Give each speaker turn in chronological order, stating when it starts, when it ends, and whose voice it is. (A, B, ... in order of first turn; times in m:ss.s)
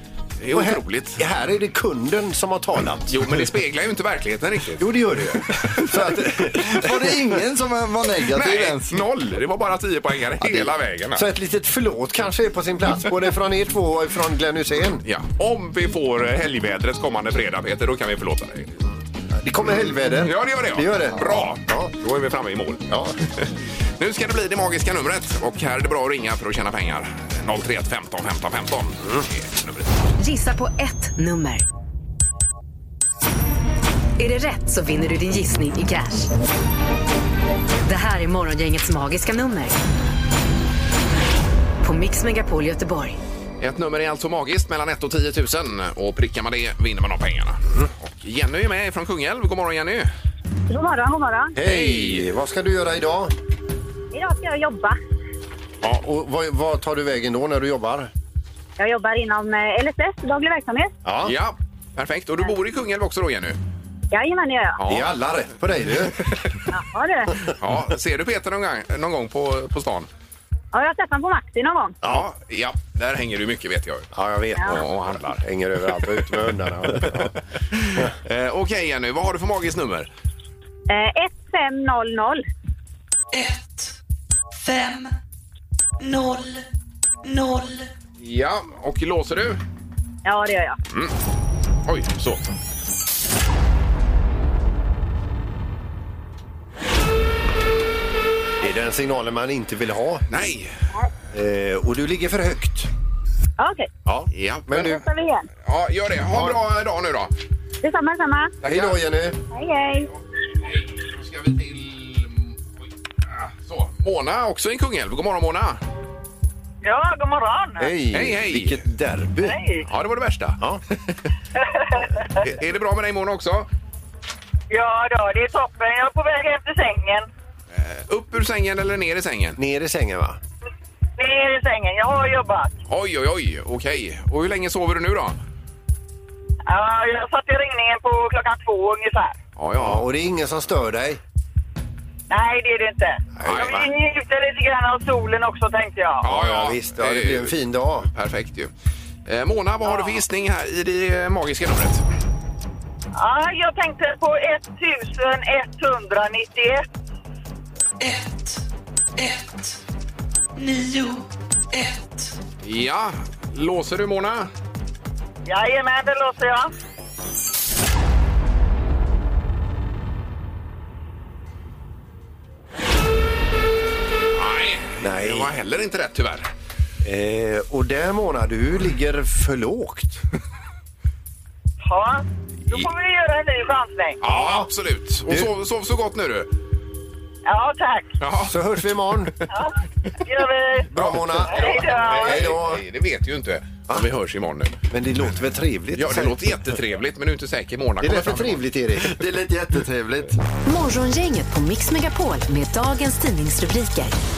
0:00.4-0:01.2 A
0:00.5-0:03.4 B
0:03.1-0:05.9 A
0:04.8-0:07.0 B
0:06.7-0:09.0 C
0:08.3-0:11.2 A
0:11.2-0:15.0 B
0:15.0-0:18.9 A
0:19.4-0:21.9 B
0:20.2-0:23.5 A
0:22.9-0:23.2 B
0:24.0-0:29.9 A
0:30.2-0:31.7 D
0:34.2-0:36.3 D
0:37.8-0:39.8 D
0:41.8-0:43.2 D
0:43.6-0:50.1 A
0:50.7-0:51.5 E
0:51.6-0:53.3 B
0:51.6-0:52.3 A
0:54.1-0:55.0 E
0:55.8-0:58.1 B
0:58.8-1:00.9 E
1:01.0-1:01.3 B
1:01.2-1:03.6 A
1:04.1-1:04.8 E
1:04.8-1:05.1 A
1:04.9-1:06.4 B
1:06.7-1:07.3 E
1:07.5-1:10.1 A
1:10.7-1:12.0 E
1:12.0-1:14.1 A
1:14.1-1:14.9 B
1:14.6-1:15.4 A
1:15.4-1:17.3 B
1:17.7-1:20.1 A
1:20.9-1:22.4 E
1:23.3-1:24.0 F
1:24.6-1:25.1 F
1:26.0-1:26.6 F
1:27.2-1:27.9 F
1:28.2-1:29.6 A
1:30.2-1:30.8 E
1:31.9-1:32.4 A
1:38.6-1:40.2 B
1:40.3-1:40.8 A
1:41.3-1:42.9 B
1:43.6-1:43.9 E
1:44.1-1:45.0 B
1:44.3-1:44.9 A
1:44.9-1:45.4 E
1:45.7-1:47.3 A
1:47.8-1:48.5 E
1:48.6-1:49.0 A
1:48.6-1:49.4 B
1:49.5-1:50.1 E
1:50.7-1:52.6 A
1:53.4-1:55.8 A
1:56.8-1:57.9 G
1:57.8-1:59.6 B
1:58.1-1:58.8 A
1:59.4-1:59.8 G
1:59.8-2:01.3 A
2:01.8-2:02.0 G
2:02.4-2:03.7 A
2:04.7-2:07.2 G
2:07.7-2:09.6 A
2:09.6-2:10.4 B
2:11.2-2:12.7 G
2:12.9-2:15.4 A
2:16.7-2:19.4 G
2:19.6-2:20.1 A
2:19.8-2:21.2 B
2:22.3-2:26.2 G
2:23.4-2:23.9 B
2:23.4-2:23.8 A
2:26.2-2:28.7 A
2:26.2-2:28.1 B
2:29.3-2:32.0 A
2:29.8-2:30.1 G
2:33.2-2:36.9 G
2:38.0-2:38.6 F
2:39.2-2:39.8 F
2:40.6-2:42.4 F
2:42.6-2:44.5 A
2:45.5-2:46.7 G
2:54.3-2:56.5 A
2:55.0-2:55.5 B
2:57.0-3:00.2 B
3:01.8-3:04.2 G
3:04.2-3:06.5 A
3:04.2-3:04.7 B
3:07.5-3:08.1 G
3:08.2-3:08.6 A
3:08.4-3:09.4 B
3:10.2-3:10.9 G
3:10.9-3:12.8 B
3:10.9-3:14.8 A
3:11.5-3:12.4 G
3:14.9-3:16.6 B
3:16.0-3:18.6 A
3:18.0-3:19.2 B
3:19.1-3:20.4 C
3:20.7-3:24.2 D